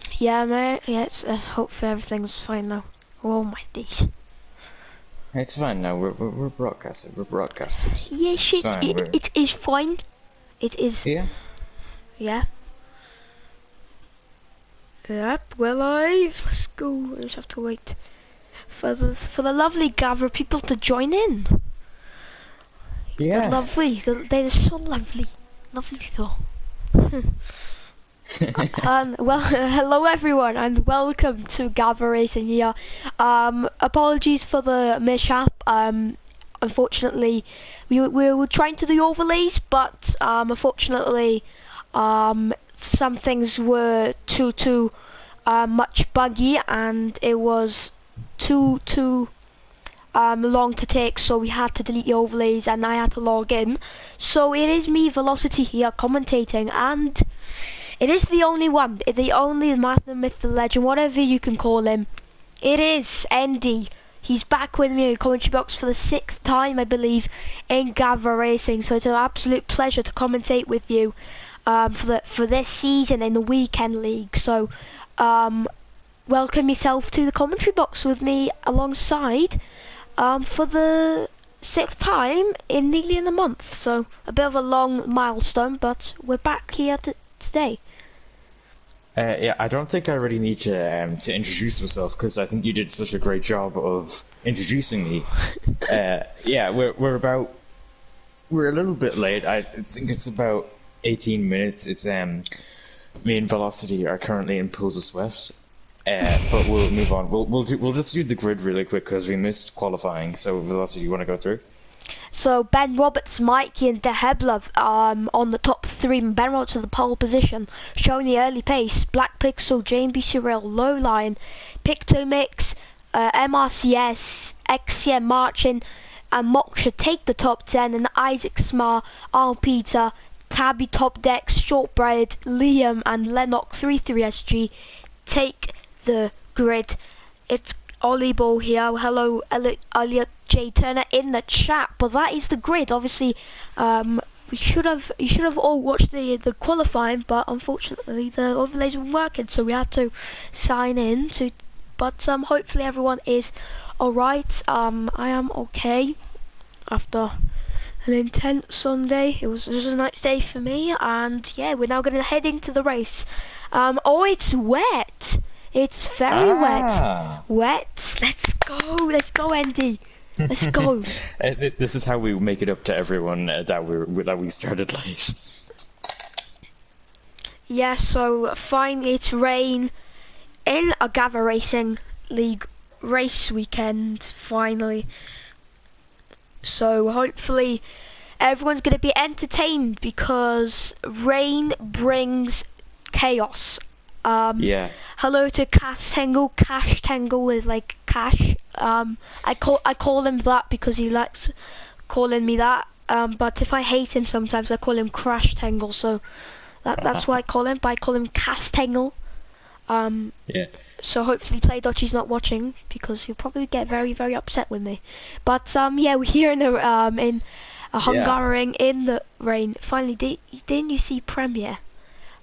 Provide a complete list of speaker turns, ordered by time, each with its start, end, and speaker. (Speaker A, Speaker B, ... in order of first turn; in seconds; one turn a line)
Speaker A: 0.1-4.1
Speaker B: 5.3-9.2
Speaker A: 8.0-10.0
Speaker A: 10.6-11.1
Speaker B: 11.0-11.3
Speaker A: 12.2-12.5
Speaker A: 15.1-18.0
Speaker A: 18.7-21.6
Speaker B: 23.2-23.7
Speaker A: 23.3-27.4
Speaker B: 28.3-28.9
Speaker A: 28.6-44.9
Speaker A: 45.5-49.3
Speaker A: 50.1-57.2
Speaker A: 58.0-62.1
Speaker A: 62.6-71.1
Speaker A: 71.7-75.7
Speaker A: 76.3-79.6
Speaker A: 80.2-87.8
Speaker B: 89.2-97.6
Speaker B: 98.5-102.5
Speaker B: 103.2-111.6
Speaker A: 112.3-134.7
Speaker A: 135.2-137.0
Speaker A: 137.5-156.2
Speaker A: 156.9-157.3
Speaker A: 158.0-171.1
Speaker B: 166.3-167.4
Speaker B: 170.5-175.4
Speaker A: 177.7-179.9
Speaker A: 180.7-185.1
Speaker A: 186.6-187.8
Speaker A: 188.4-201.6
Speaker B: 194.6-194.9
Speaker A: 202.1-206.2
Speaker A: 206.8-209.1
Speaker B: 207.0-207.3
Speaker A: 209.9-210.3
Speaker A: 211.0-221.8
Speaker B: 218.0-218.4